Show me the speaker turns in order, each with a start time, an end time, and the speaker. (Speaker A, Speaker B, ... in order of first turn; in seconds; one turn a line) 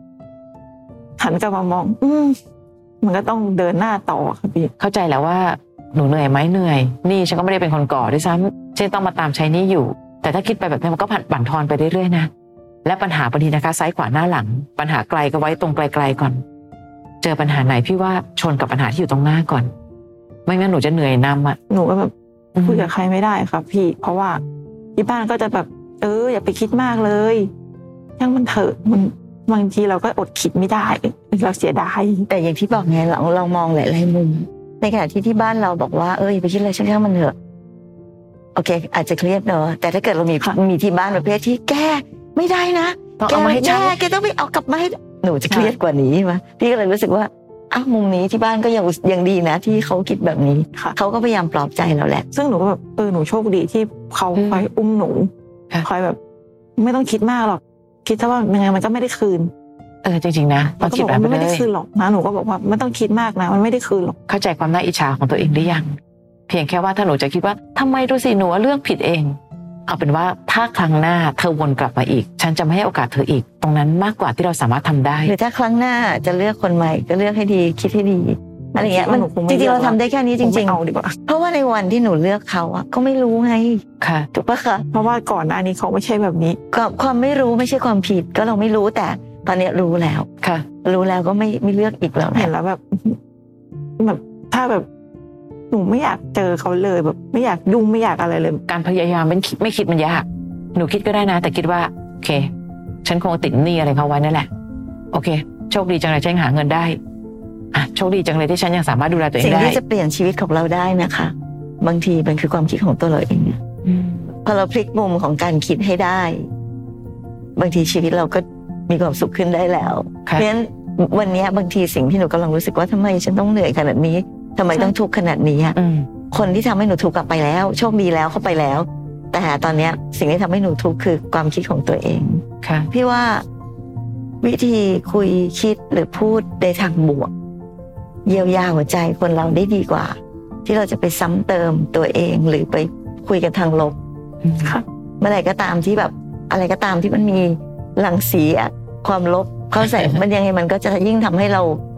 Speaker A: 1.2-2.4
Speaker A: 3.0-4.7
Speaker B: 4.8-12.3
Speaker B: 12.8-16.4
Speaker B: 17.2-19.7
Speaker B: 20.5-21.6
Speaker A: 21.7-22.1
Speaker B: 22.6-22.9
Speaker A: 22.6-24.4
Speaker A: 25.0-27.5
Speaker A: 28.2-32.3
Speaker C: 32.3-37.4
Speaker C: 38.5-52.3
Speaker B: 43.2-44.0
Speaker A: 52.3-55.3
Speaker B: 54.4-54.7
Speaker A: 55.8-56.2
Speaker A: 56.8-59.5
Speaker B: 60.0-61.7
Speaker A: 60.8-64.2
Speaker B: 64.3-66.0
Speaker B: 66.5-75.3
Speaker C: 75.3-84.9
Speaker A: 78.8-81.2
Speaker B: 84.0-84.3
Speaker A: 84.9-86.6
Speaker C: 86.7-90.3
Speaker C: 90.8-92.5
Speaker A: 92.3-93.2
Speaker A: 94.0-94.9
Speaker A: 95.7-98.6
Speaker B: 98.7-102.5
Speaker B: 103.0-104.5
Speaker B: 105.1-107.0
Speaker B: 107.7-109.8
Speaker C: 109.4-113.6
Speaker B: 113.8-114.3
Speaker C: 114.4-116.5
Speaker C: 117.6-125.8
Speaker B: 125.8-126.1
Speaker C: 126.3-133.4
Speaker B: 132.6-132.9
Speaker C: 134.4-137.3
Speaker C: 138.3-144.0
Speaker B: 144.4-144.8
Speaker C: 145.2-151.8
Speaker B: 149.8-150.2